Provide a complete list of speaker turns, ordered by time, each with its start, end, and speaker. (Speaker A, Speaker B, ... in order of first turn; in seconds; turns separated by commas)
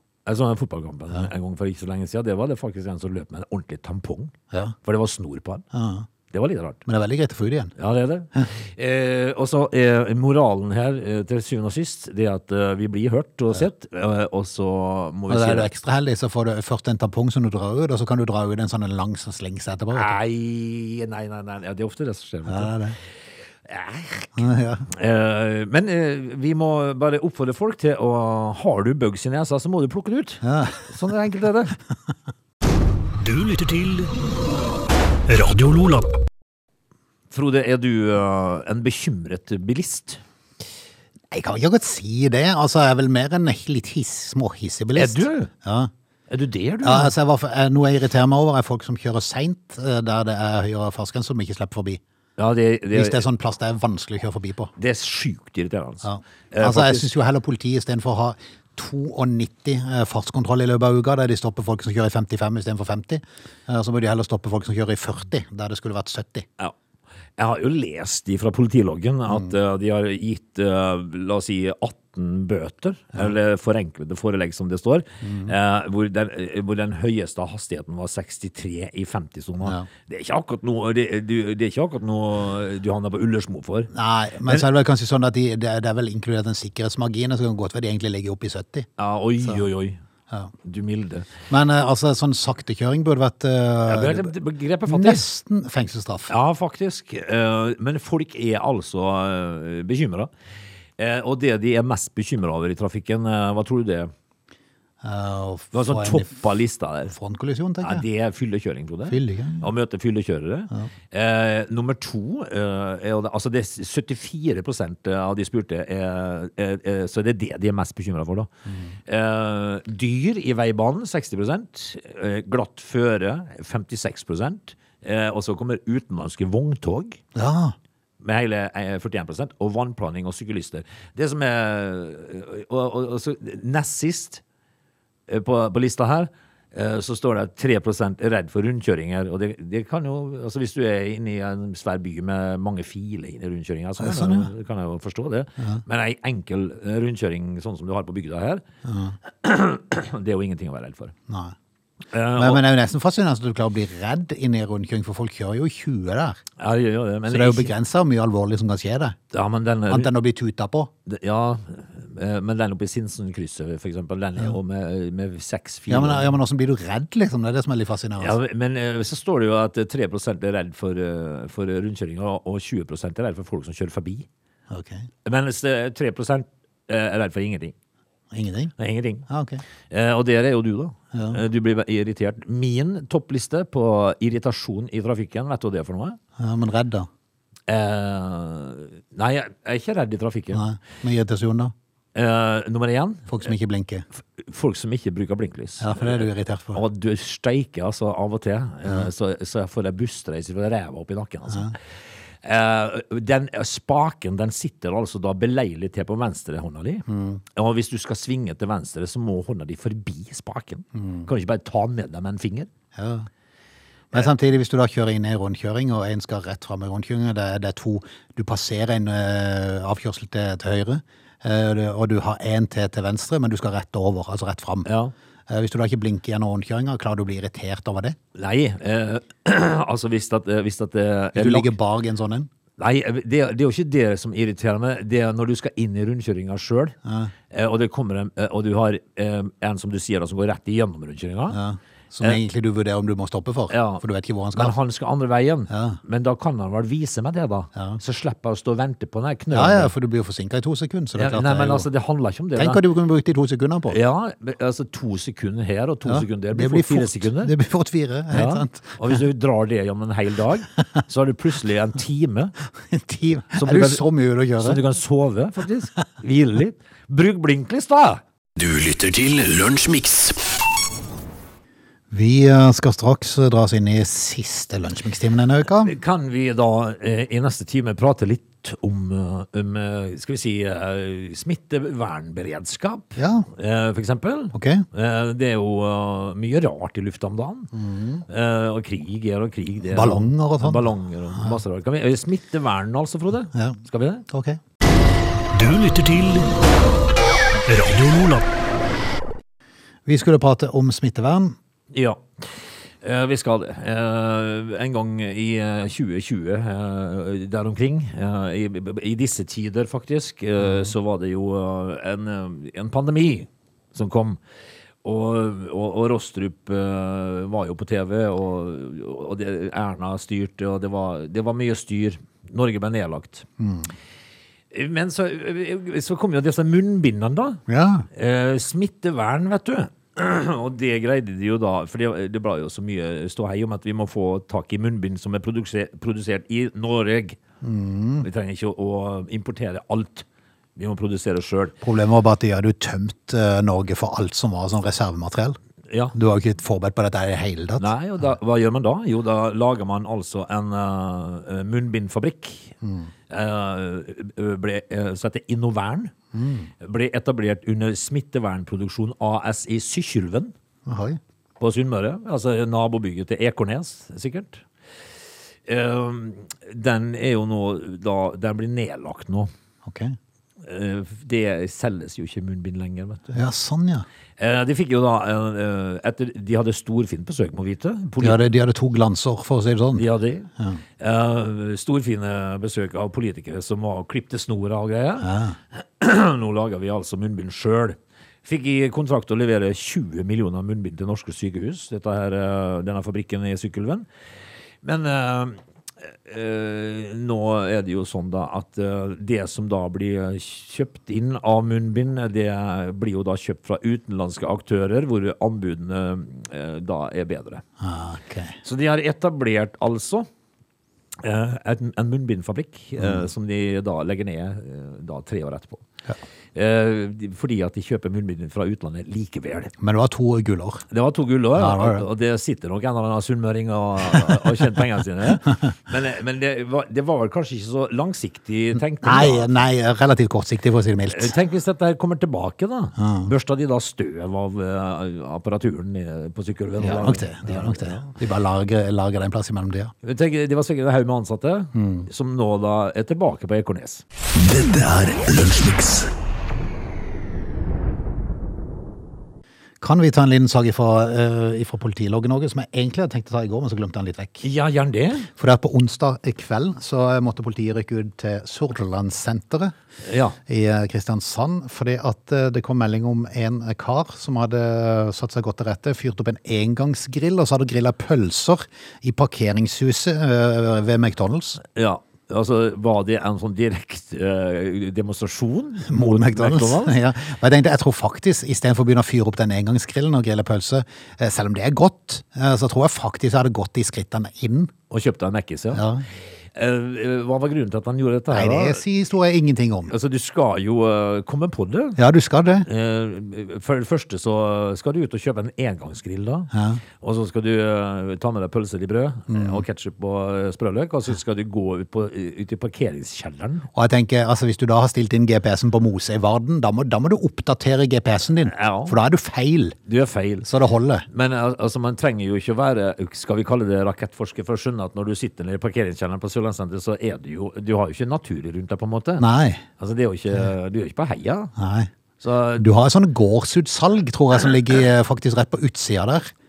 Speaker A: 0.2-5.6, Speaker B: 5.7-6.1, Speaker A: 6.3-6.8, Speaker B: 6.8-7.7, Speaker A: 7.8-15.7, Speaker B: 15.3-20.1, Speaker A: 19.9-22.7, Speaker B: 22.4-23.0, Speaker A: 23.6-31.8, Speaker B: 24.4-24.9, Speaker B: 30.4-30.9, Speaker C: 33.2-34.1, Speaker C: 35.3-36.1, Speaker A: 37.3-40.2, Speaker B: 41.3-45.9, Speaker A: 44.9-45.5, Speaker A: 46.3-47.1, Speaker B: 46.8-52.0, Speaker A: 52.4-53.2, Speaker B: 52.9-54.7, Speaker A: 54.8-57.1, Speaker B: 56.0-66.5, Speaker A: 67.4-83.9, Speaker B: 75.2-75.5, Speaker B: 79.6-79.9, Speaker B: 83.9-88.9, Speaker A: 89.0-90.0, Speaker A: 90.6-91.3, Speaker B: 91.5-94.3, Speaker A: 93.8-95.3, Speaker B: 94.8-96.3, Speaker A: 96.3-100.3, Speaker A: 101.0-104.1, Speaker B: 105.0-106.4, Speaker A: 105.7-107.1, Speaker B: 107.1-108.0, Speaker A: 107.8-118.5, Speaker B: 109.1-109.7, Speaker B: 118.7-118.9, Speaker A: 119.1-127.2, Speaker B: 127.3-127.7, Speaker A: 128.2-134.4, Speaker A: 135.3-148.6, Speaker B: 144.0-144.5, Speaker B: 148.8-149.2, Speaker A: 149.3-151.1, Speaker B: 151.3-151.5, Speaker A: 152.1-152.6, Speaker B: 152.3-156.4, Speaker A: 156.6-157.7, Speaker B: 157.3-159.2, Speaker A: 159.3-160.1, Speaker B: 159.9-160.9, Speaker A: 161.1-166.3, Speaker B: 165.9-168.4, Speaker A: 168.2-174.3, Speaker B: 174.7-175.1, Speaker A: 175.2-177.7, Speaker B: 178.3-178.7, Speaker A: 178.8-179.2, Speaker B: 179.3-179.6, Speaker A: 179.9-186.2, Speaker B: 181.1-181.4, Speaker B: 186.4-187.1, Speaker A: 187.7-190.6, Speaker B: 190.5-191.7, Speaker A: 192.1-193.5, Speaker B: 193.3-194.1, Speaker A: 194.3-201.8, Speaker B: 195.8-196.8, Speaker A: 202.4-212.7, Speaker B: 207.1-207.4, Speaker B: 210.9-211.3, Speaker B: 212.9-213.3, Speaker B: 214.1-224.9, Speaker A: 224.8-225.1, Speaker B: 225.5-228.2, Speaker A: 228.3-231.7, Speaker B: 231.3-232.5, Speaker A: 232.8-237.0, Speaker B: 237.0-237.3, Speaker A: 237.5-241.6, Speaker B: 241.5-244.7, Speaker A: 243.7-244.0, Speaker A: 244.5-249.9, Speaker B: 245.7-246.0, Speaker B: 247.7-248.0, Speaker B: 249.5-251.9, Speaker A: 251.2-252.8, Speaker B: 252.6-254.0, Speaker A: 253.9-257.5, Speaker B: 256.1-259.2, Speaker A: 258.3-262.5, Speaker B: 262.9-264.8, Speaker A: 263.5-264.0, Speaker A: 264.6-268.2, Speaker C: 268.6-270.4, Speaker B: 272.1-275.9, Speaker A: 275.7-287.7, Speaker B: 283.2-283.5, Speaker B: 284.5-284.9, Speaker B: 287.7-288.2, Speaker A: 288.3-294.2, Speaker B: 289.9-290.9, Speaker B: 293.5-294.6, Speaker C: 295.5-296.5, Speaker C: 297.6-298.4, Speaker B: 300.1-301.6, Speaker A: 301.9-314.4, Speaker A: 315.0-323.4, Speaker B: 323.6-323.9, Speaker A: 324.7-337.4, Speaker B: 327.7-328.1, Speaker B: 337.6-338.3, Speaker A: 338.2-341.8, Speaker B: 341.8-345.6, Speaker A: 345.9-346.1, Speaker B: 346.1-347.9, Speaker A: 347.8-352.7, Speaker B: 352.8-353.1, Speaker A: 353.3-356.1, Speaker B: 356.3-356.7, Speaker A: 356.8-360.5, Speaker B: 360.9-361.2, Speaker A: 361.6-364.6, Speaker A: 365.6-369.5, Speaker B: 369.8-370.2, Speaker A: 370.6-373.4, Speaker B: 373.3-374.1, Speaker A: 374.4-378.4, Speaker B: 378.2-380.0, Speaker A: 379.9-394.1, Speaker B: 385.2-385.6, Speaker A: 394.8-407.6, Speaker B: 407.8-408.6, Speaker A: 408.6-410.3, Speaker A: 411.2-415.8, Speaker B: 413.0-413.2, Speaker A: 416.5-419.7, Speaker B: 419.8-420.8, Speaker A: 420.9-429.6, Speaker B: 421.5-422.0, Speaker B: 429.0-431.3, Speaker A: 431.1-438.1, Speaker B: 433.0-433.3, Speaker B: 436.8-439.9, Speaker A: 440.0-444.0, Speaker B: 441.7-442.1, Speaker C: 444.4-446.1, Speaker B: 449.8-454.4, Speaker A: 454.4-455.3, Speaker B: 455.3-459.7, Speaker A: 460.0-460.4, Speaker B: 460.5-471.6, Speaker A: 471.7-477.0, Speaker B: 475.9-484.7, Speaker A: 484.9-485.8, Speaker B: 485.7-486.1, Speaker A: 486.5-488.8, Speaker B: 488.3-489.9, Speaker A: 489.9-492.0, Speaker B: 492.0-492.7, Speaker A: 492.6-503.7, Speaker B: 496.5-496.8, Speaker B: 499.3-499.6, Speaker B: 503.7-509.8, Speaker A: 508.4-508.9, Speaker A: 509.9-510.5, Speaker B: 510.4-511.1, Speaker A: 511.1-519.2, Speaker B: 519.2-519.6, Speaker A: 519.8-521.5, Speaker B: 521.6-521.9, Speaker A: 522.2-522.7, Speaker B: 522.6-526.3